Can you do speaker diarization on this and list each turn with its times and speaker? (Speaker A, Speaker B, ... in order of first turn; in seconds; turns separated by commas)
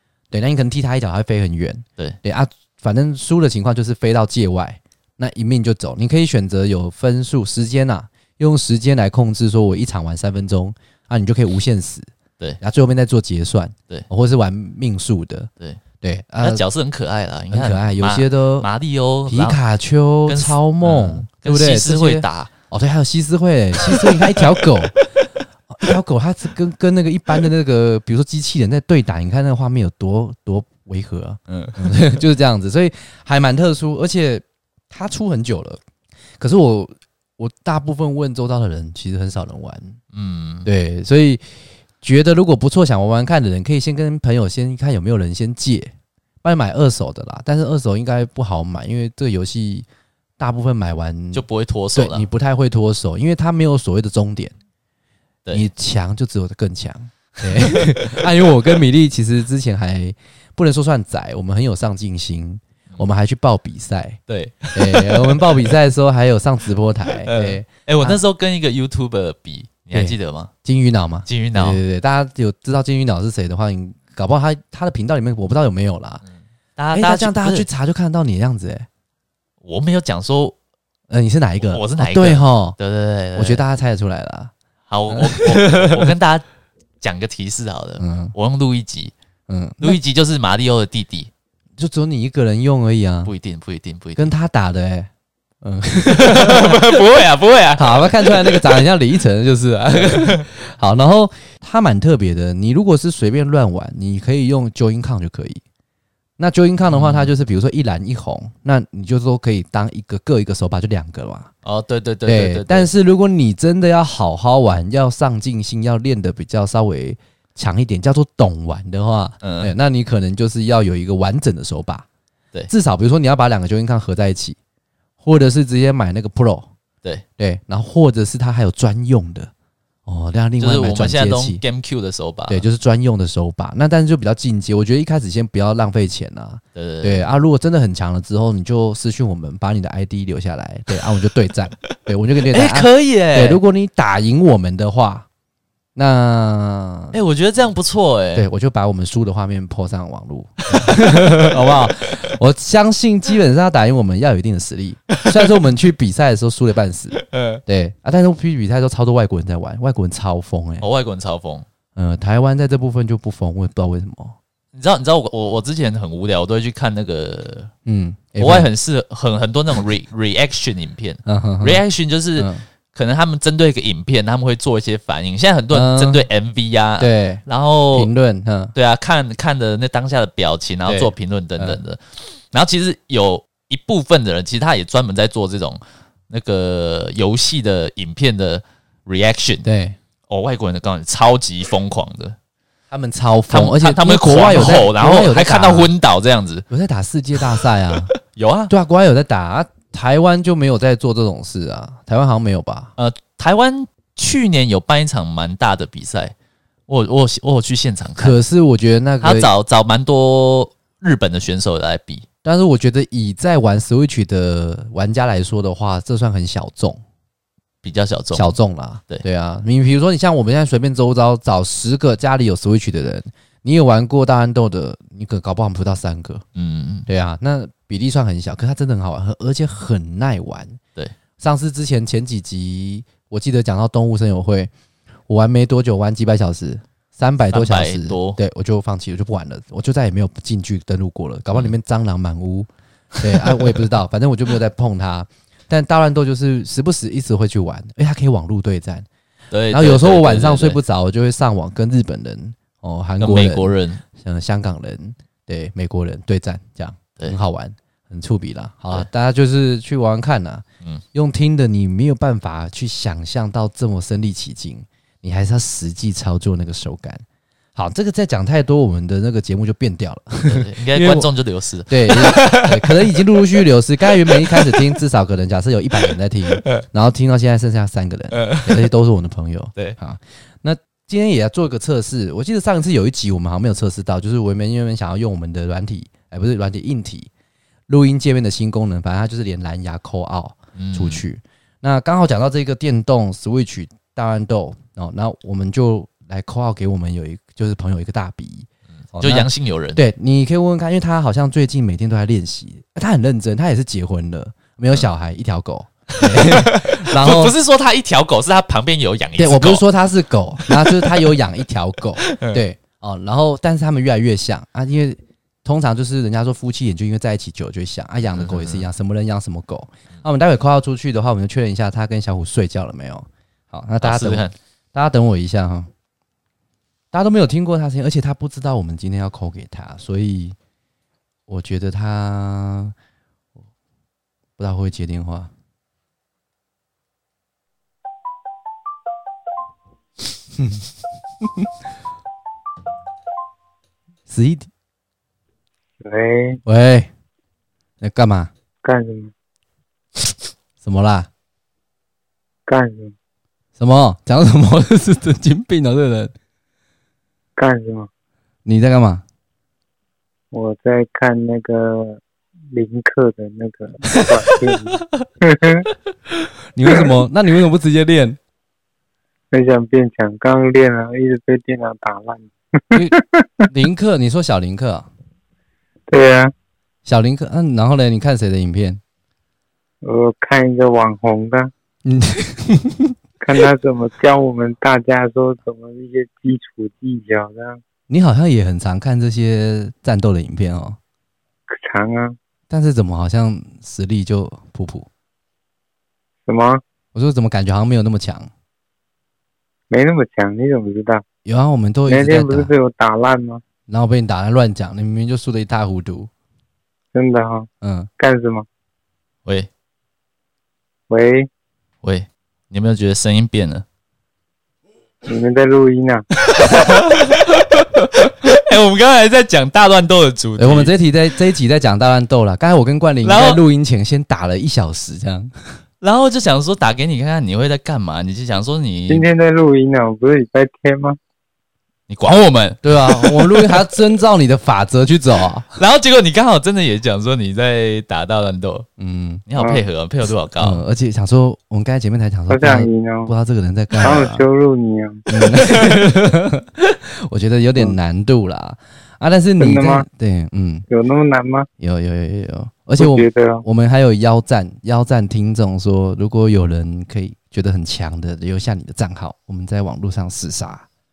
Speaker A: 0.3-12.1, Speaker A: 12.6-15.5, Speaker A: 16.0-16.6, Speaker B: 16.4-19.6, Speaker A: 17.5-18.7, Speaker A: 19.3-25.1, Speaker B: 20.3-22.5, Speaker B: 23.8-25.0, Speaker A: 25.7-35.8, Speaker B: 31.5-32.2, Speaker A: 36.4-40.0, Speaker B: 40.1-40.7, Speaker A: 40.6-41.4, Speaker A: 42.0-49.9, Speaker A: 50.4-51.4, Speaker B: 51.3-52.3, Speaker A: 51.9-54.5, Speaker A: 55.5-64.2, Speaker B: 57.5-58.2, Speaker B: 64.3-65.7, Speaker A: 64.7-68.2, Speaker B: 67.2-70.5, Speaker A: 69.9-76.2, Speaker B: 71.2-71.8, Speaker B: 76.8-77.7, Speaker A: 76.9-78.9, Speaker B: 79.6-80.5, Speaker A: 81.1-82.8, Speaker B: 81.6-83.6, Speaker A: 83.3-84.5, Speaker B: 84.9-86.4, Speaker A: 85.1-86.1, Speaker B: 87.0-89.1, Speaker A: 88.0-88.3, Speaker A: 89.5-90.0, Speaker B: 89.8-91.3, Speaker A: 91.8-93.3, Speaker B: 93.2-94.3, Speaker A: 94.2-95.1, Speaker A: 95.6-96.8, Speaker B: 96.0-98.8, Speaker A: 97.8-105.6, Speaker B: 100.0-100.4, Speaker A: 106.4-111.5, Speaker B: 106.9-107.3, Speaker B: 111.6-112.9, Speaker A: 112.2-122.0, Speaker B: 119.4-119.7, Speaker A: 122.7-124.6, Speaker A: 125.2-126.7, Speaker A: 127.4-129.5, Speaker A: 130.1-131.6, Speaker B: 130.6-132.6, Speaker A: 132.5-145.3, Speaker B: 136.7-137.3, Speaker B: 142.5-143.6, Speaker A: 145.9-147.1, Speaker B: 147.1-148.5, Speaker A: 148.3-160.8, Speaker B: 150.7-151.5, Speaker B: 157.1-157.6, Speaker B: 160.8-161.7, Speaker A: 161.9-164.3, Speaker B: 164.7-167.7, Speaker A: 167.8-168.7, Speaker B: 168.4-178.1, Speaker A: 171.2-171.8, Speaker A: 172.4-172.6, Speaker A: 175.7-176.2, Speaker A: 177.0-177.4, Speaker A: 177.9-178.7, Speaker B: 178.7-189.6, Speaker A: 180.9-181.8, Speaker A: 189.6-190.0, Speaker B: 190.3-192.3, Speaker A: 192.9-195.9, Speaker B: 193.5-196.7, Speaker A: 196.7-198.1, Speaker B: 198.1-198.7, Speaker A: 198.7-202.9, Speaker B: 203.0-206.3, Speaker B: 206.9-208.4, Speaker A: 208.2-209.5, Speaker B: 209.2-212.2, Speaker A: 212.4-217.0, Speaker B: 217.8-218.5, Speaker A: 218.3-226.4, Speaker B: 226.5-227.1, Speaker A: 227.1-230.8, Speaker A: 231.4-234.7, Speaker A: 235.3-249.1, Speaker B: 237.5-238.4, Speaker B: 243.4-243.7, Speaker B: 249.5-250.8, Speaker A: 249.7-267.2, Speaker B: 253.2-254.0, Speaker A: 267.8-271.3, Speaker B: 270.4-273.1, Speaker A: 271.9-287.3, Speaker B: 274.5-274.8, Speaker B: 278.3-278.8, Speaker A: 287.9-307.5, Speaker B: 290.8-291.2, Speaker B: 299.2-300.0, Speaker B: 306.2-309.8, Speaker A: 309.4-325.9, Speaker B: 310.6-311.3, Speaker B: 312.2-312.6, Speaker B: 318.3-318.8, Speaker B: 324.0-324.5, Speaker A: 327.1-330.6, Speaker A: 331.5-332.9, Speaker A: 334.6-335.5, Speaker A: 340.6-340.8, Speaker A: 341.4-341.7, Speaker A: 344.3-344.7, Speaker C: 346.0-346.6, Speaker A: 346.6-347.1, Speaker A: 348.0-348.5, Speaker C: 348.8-349.3, Speaker A: 350.8-351.3, Speaker C: 352.7-353.1, Speaker A: 353.8-356.3, Speaker C: 357.6-358.1, Speaker A: 358.6-359.2, Speaker C: 360.5-362.2, Speaker C: 362.7-365.9, Speaker A: 366.7-368.4, Speaker C: 369.5-373.7, Speaker A: 373.7-375.1, Speaker C: 376.1-376.5, Speaker A: 377.0-379.0, Speaker C: 380.0-381.7, Speaker A: 382.0-383.1, Speaker C: 383.4-387.8, Speaker A: 388.1-391.0, Speaker C: 391.7-392.4, Speaker A: 392.7-395.1, Speaker C: 396.4-396.8, Speaker A: 397.1-398.5, Speaker C: 399.9-401.2, Speaker A: 401.4-402.7, Speaker C: 402.1-403.6, Speaker A: 403.9-406.3, Speaker C: 407.1-408.6, Speaker A: 407.8-408.1, Speaker C: 411.1-411.5, Speaker B: 412.0-413.8, Speaker C: 415.2-416.2, Speaker B: 416.5-420.9, Speaker A: 420.6-425.5, Speaker B: 423.2-423.6, Speaker B: 426.0-429.3, Speaker C: 429.1-431.2, Speaker B: 432.1-433.8, Speaker A: 432.8-435.7, Speaker B: 435.7-438.9, Speaker A: 439.0-439.4, Speaker B: 439.5-440.8, Speaker C: 439.6-439.8, Speaker A: 440.6-444.4, Speaker C: 442.5-443.3, Speaker C: 444.0-445.2, Speaker A: 445.3-450.8, Speaker C: 449.6-450.1, Speaker C: 450.9-451.7, Speaker A: 451.8-460.8, Speaker C: 453.0-453.6